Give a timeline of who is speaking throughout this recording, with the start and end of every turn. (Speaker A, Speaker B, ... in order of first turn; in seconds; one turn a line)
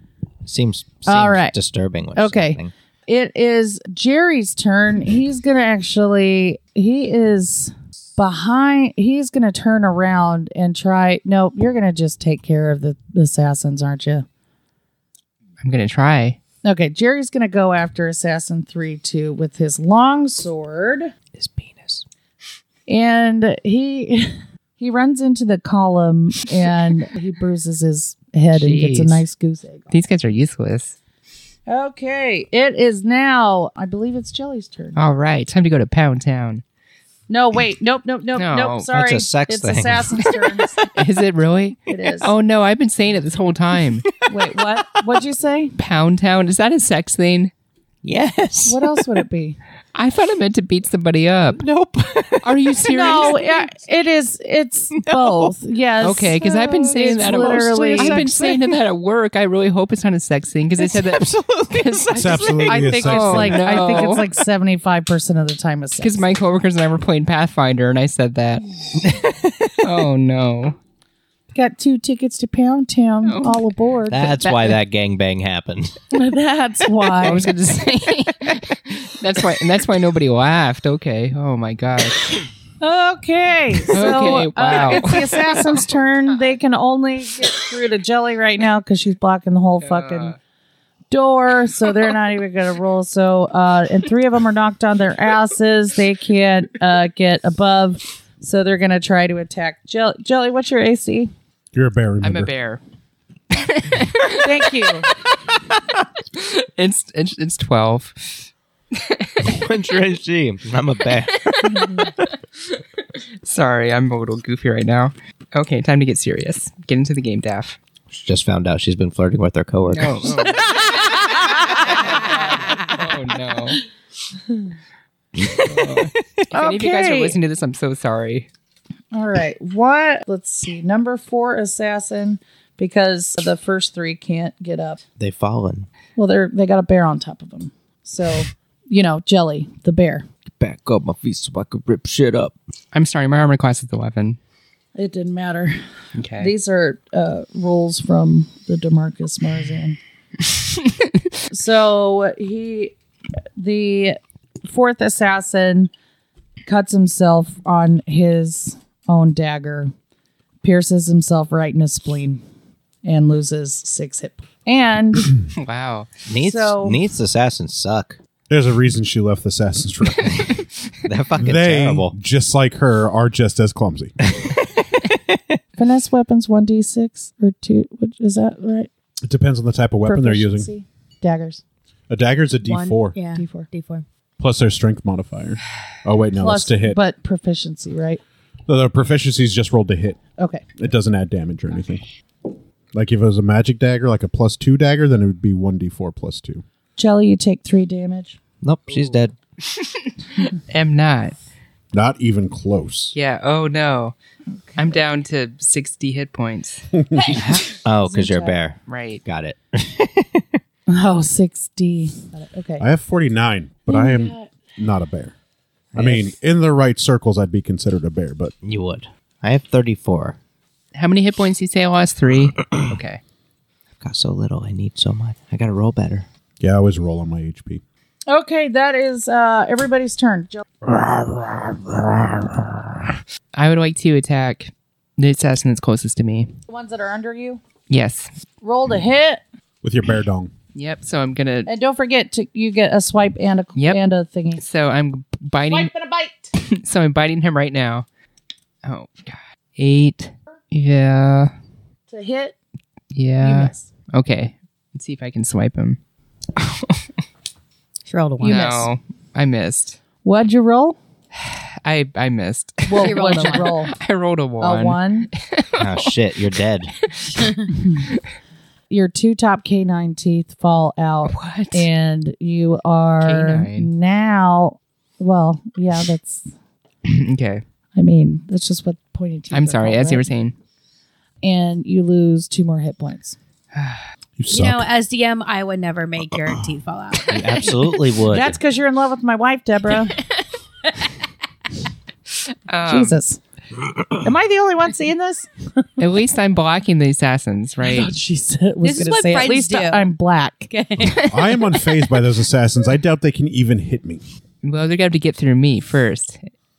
Speaker A: 0.5-2.7
Speaker B: 1.1-1.6
Speaker B: 2.1-14.3
Speaker C: 15.6-16.4
Speaker B: 16.6-21.1
Speaker A: 21.3-22.1
Speaker B: 22.9-29.9
Speaker C: 28.5-29.2
Speaker C: 29.9-31.0
Speaker B: 31.7-35.0
Speaker C: 35.0-36.6
Speaker B: 37.3-40.9
Speaker C: 38.4-38.9
Speaker A: 38.9-40.6
Speaker C: 40.9-44.1
Speaker B: 41.9-42.3
Speaker A: 44.0-44.3
Speaker B: 44.3-45.7
Speaker C: 45.8-47.5
Speaker A: 48.0-48.9
Speaker B: 48.7-49.6
Speaker C: 50.0-51.6
Speaker A: 51.5-53.4
Speaker C: 52.4-53.4
Speaker B: 52.9-58.3
Speaker A: 55.0-55.5
Speaker C: 56.0-64.3
Speaker D: 57.2-58.3
Speaker A: 57.6-58.8
Speaker A: 60.8-62.8
Speaker D: 62.1-63.6
Speaker B: 62.7-66.3
Speaker C: 66.0-69.1
Speaker A: 69.0-69.7
Speaker C: 69.8-70.8
Speaker B: 71.5-74.4
Speaker C: 73.3-73.7
Speaker A: 74.1-76.0
Speaker C: 74.3-74.8
Speaker B: 76.1-77.5
Speaker C: 77.2-82.5
Speaker B: 82.8-90.3
Speaker C: 83.9-85.6
Speaker C: 89.8-90.4
Speaker B: 91.1-101.3
Speaker D: 101.7-102.5
Speaker C: 102.2-102.8
Speaker C: 103.5-105.1
Speaker B: 104.4-105.1
Speaker C: 106.4-109.5
Speaker A: 109.4-111.6
Speaker C: 111.4-112.8
Speaker B: 111.7-112.0
Speaker C: 113.4-117.8
Speaker A: 118.1-120.6
Speaker C: 119.9-120.8
Speaker C: 121.7-123.8
Speaker E: 122.6-122.9
Speaker A: 125.4-126.1
Speaker C: 125.6-128.5
Speaker B: 126.5-127.4
Speaker B: 129.1-135.0
Speaker A: 135.2-135.9
Speaker B: 136.2-140.3
Speaker A: 140.6-142.5
Speaker C: 142.9-144.4
Speaker B: 145.0-145.8
Speaker C: 146.2-146.5
Speaker B: 146.3-150.0
Speaker B: 151.5-152.9
Speaker B: 153.6-155.9
Speaker B: 156.7-159.9
Speaker B: 160.6-162.4
Speaker B: 163.0-165.3
Speaker C: 165.6-166.1
Speaker A: 166.3-168.2
Speaker B: 166.4-167.0
Speaker D: 168.5-170.6
Speaker A: 171.0-172.1
Speaker D: 171.4-174.2
Speaker A: 175.0-175.6
Speaker B: 175.8-178.9
Speaker D: 179.2-180.7
Speaker B: 180.1-181.6
Speaker D: 182.1-183.2
Speaker E: 182.7-184.0
Speaker B: 183.3-183.7
Speaker D: 184.4-187.0
Speaker B: 186.4-188.2
Speaker D: 188.7-190.2
Speaker B: 190.4-190.6
Speaker D: 190.8-192.0
Speaker D: 192.9-196.6
Speaker B: 197.0-198.4
Speaker A: 198.6-199.3
Speaker C: 199.7-201.4
Speaker D: 201.9-203.2
Speaker C: 203.1-204.2
Speaker B: 204.7-205.0
Speaker C: 204.8-207.6
Speaker B: 207.2-207.4
Speaker A: 207.4-210.6
Speaker B: 208.0-208.6
Speaker C: 208.9-209.2
Speaker B: 210.9-212.9
Speaker D: 212.8-215.3
Speaker B: 213.9-214.5
Speaker A: 215.9-216.3
Speaker D: 216.0-218.5
Speaker A: 218.6-220.4
Speaker C: 220.9-223.2
Speaker A: 224.0-226.3
Speaker D: 226.6-227.8
Speaker B: 228.3-230.7
Speaker D: 231.1-231.6
Speaker C: 233.5-236.5
Speaker B: 236.7-237.6
Speaker C: 237.9-238.3
Speaker B: 238.6-239.4
Speaker D: 239.8-240.5
Speaker C: 240.8-241.7
Speaker B: 241.7-244.6
Speaker C: 244.6-245.9
Speaker B: 245.7-246.5
Speaker C: 246.6-248.1
Speaker C: 248.8-251.5
Speaker B: 252.1-252.6
Speaker C: 253.1-256.0
Speaker B: 253.4-253.9
Speaker C: 256.6-257.1
Speaker E: 258.1-258.7
Speaker B: 258.4-258.9
Speaker C: 258.4-260.0
Speaker B: 260.2-261.0
Speaker C: 261.3-266.1
Speaker B: 262.9-263.9
Speaker E: 262.9-263.8
Speaker B: 264.6-265.3
Speaker A: 265.8-266.9
Speaker C: 267.1-268.2
Speaker E: 267.3-267.7
Speaker B: 268.9-276.5
Speaker C: 271.3-271.9
Speaker C: 273.2-273.9
Speaker C: 277.1-277.6
Speaker B: 278.0-280.3
Speaker C: 279.5-280.5
Speaker B: 281.4-283.4
Speaker C: 283.7-284.0
Speaker D: 284.4-284.9
Speaker E: 284.5-287.8
Speaker A: 287.3-288.6
Speaker B: 288.3-290.2
Speaker C: 292.7-293.2
Speaker B: 292.9-293.4
Speaker B: 294.2-295.9
Speaker C: 296.0-298.1
Speaker B: 297.8-300.7
Speaker E: 298.8-300.1
Speaker E: 300.7-301.3
Speaker D: 301.1-304.2
Speaker C: 304.6-306.5